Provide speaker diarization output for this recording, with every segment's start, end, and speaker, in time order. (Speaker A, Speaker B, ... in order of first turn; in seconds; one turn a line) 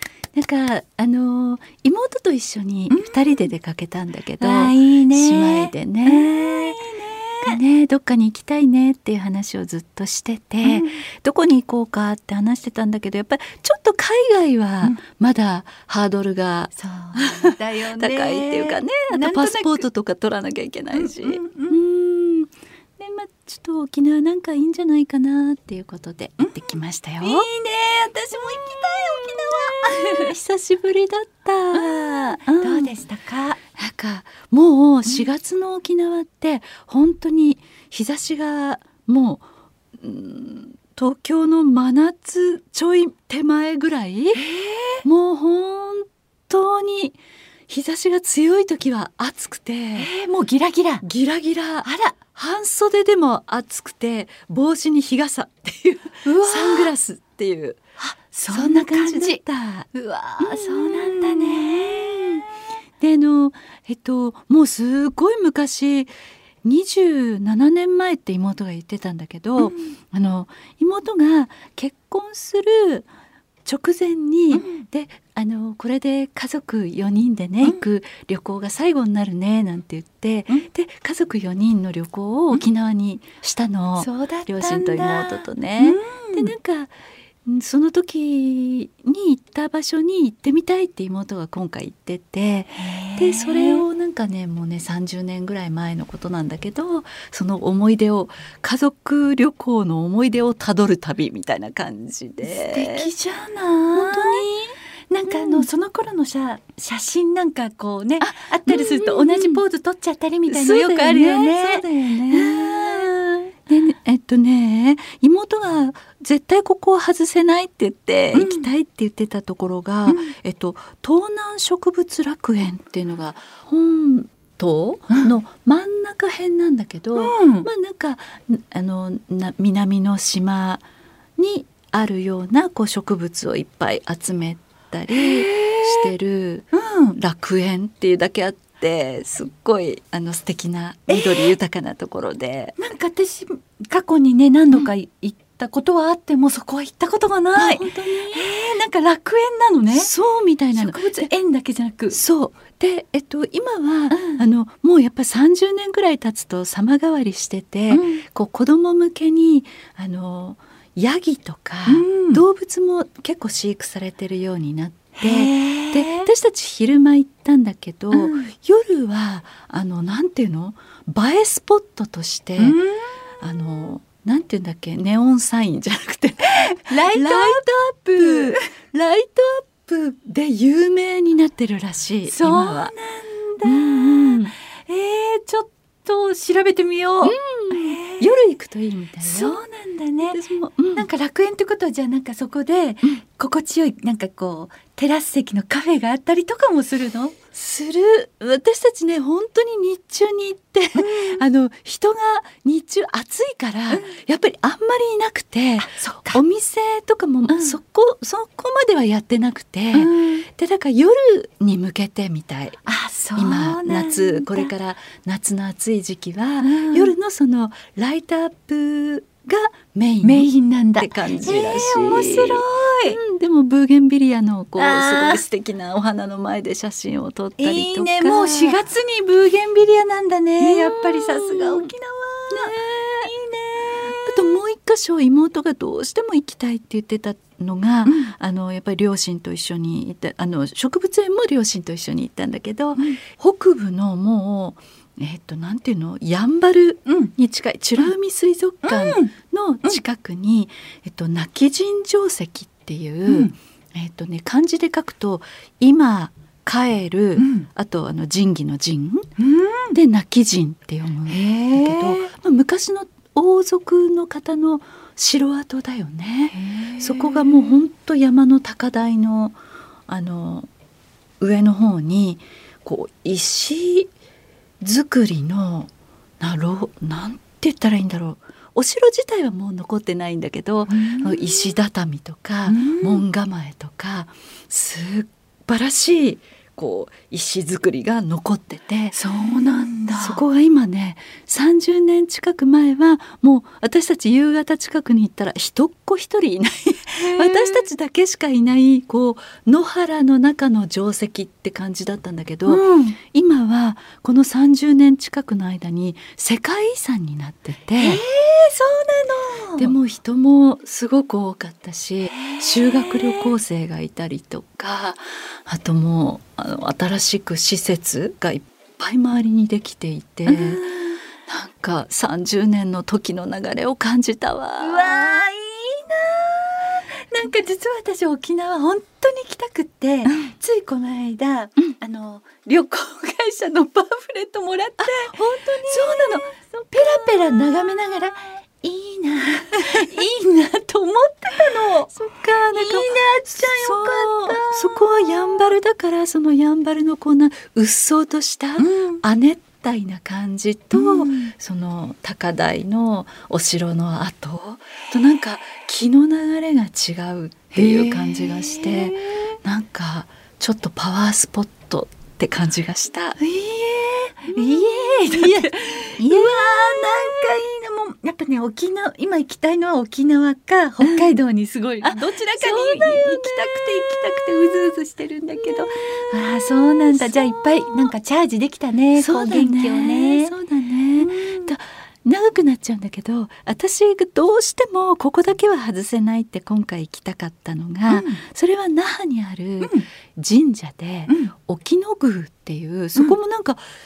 Speaker A: 0.3-6.8
Speaker B: 2.9-3.4
Speaker B: 4.4-7.6
Speaker A: 7.4-27.5
Speaker B: 10.6-11.0
Speaker B: 16.8-19.8
Speaker B: 20.9-21.8
Speaker B: 27.2-30.3
Speaker A: 28.6-32.9
Speaker B: 31.7-33.6
Speaker A: 33.8-39.4
Speaker A: 40.0-44.4
Speaker B: 44.3-45.0
Speaker A: 45.0-47.2
Speaker A: 47.7-50.1
Speaker B: 50.0-51.0
Speaker A: 51.0-57.8
Speaker B: 51.8-52.1
Speaker B: 56.2-56.9
Speaker B: 58.0-59.4
Speaker A: 58.5-59.9
Speaker B: 59.9-62.4
Speaker A: 60.4-62.4
Speaker A: 63.0-66.1
Speaker A: 66.6-73.1
Speaker A: 73.7-86.9
Speaker B: 74.5-74.8
Speaker B: 84.0-86.5
Speaker A: 87.4-103.1
Speaker B: 92.8-93.8
Speaker B: 102.4-104.5
Speaker A: 103.9-104.8
Speaker B: 105.1-113.1
Speaker A: 105.3-105.7
Speaker A: 108.2-109.6
Speaker A: 110.5-130.8
Speaker B: 118.3-118.7
Speaker B: 120.1-120.3
Speaker B: 127.2-127.7
Speaker A: 131.4-142.8
Speaker B: 135.1-136.1
Speaker B: 136.7-137.1
Speaker B: 141.1-141.5
Speaker B: 142.8-150.1
Speaker A: 147.6-148.5
Speaker A: 149.9-151.3
Speaker B: 150.7-152.2
Speaker A: 152.1-172.8
Speaker B: 154.1-154.4
Speaker B: 157.9-158.2
Speaker B: 161.8-162.4
Speaker B: 165.2-166.3
Speaker B: 168.1-168.5
Speaker B: 172.6-173.1
Speaker A: 173.4-182.9
Speaker B: 176.6-178.6
Speaker B: 182.3-188.3
Speaker A: 183.6-184.5
Speaker A: 187.2-189.6
Speaker B: 189.2-190.4
Speaker A: 190.3-191.1
Speaker B: 190.9-197.3
Speaker A: 197.5-212.8
Speaker B: 200.9-201.4
Speaker B: 203.9-204.1
Speaker B: 205.8-206.4
Speaker B: 207.5-207.8
Speaker B: 209.9-210.4
Speaker B: 212.8-214.7
Speaker A: 213.3-228.8
Speaker B: 216.6-217.1
Speaker B: 220.2-223.2
Speaker B: 224.8-225.4
Speaker B: 227.6-234.3
Speaker A: 230.6-231.9
Speaker A: 232.5-233.3
Speaker A: 234.2-259.3
Speaker B: 238.0-238.3
Speaker B: 247.1-247.3
Speaker B: 248.8-249.3
Speaker B: 253.3-253.5
Speaker B: 257.4-257.7
Speaker B: 259.4-259.9
Speaker A: 259.9-270.7
Speaker B: 261.3-262.3
Speaker B: 266.6-267.4
Speaker A: 271.4-274.1
Speaker A: 274.8-289.2
Speaker B: 280.9-281.3
Speaker B: 282.7-283.2
Speaker B: 289.1-290.4
Speaker A: 290.1-308.2
Speaker B: 297.2-297.9
Speaker B: 302.7-303.2
Speaker B: 308.0-309.9
Speaker A: 309.8-320.8
Speaker B: 320.5-321.2
Speaker A: 321.4-325.5
Speaker B: 324.8-342.1
Speaker A: 335.0-337.9
Speaker A: 339.7-340.2
Speaker A: 341.6-363.4
Speaker B: 342.7-345.6
Speaker B: 348.8-349.2
Speaker B: 350.9-351.5
Speaker B: 357.7-359.5
Speaker B: 363.4-380.5
Speaker A: 364.5-367.5
Speaker A: 371.0-371.3
Speaker A: 372.0-374.9
Speaker A: 375.6-378.1
Speaker A: 379.1-393.8
Speaker B: 381.2-381.7
Speaker B: 388.1-388.4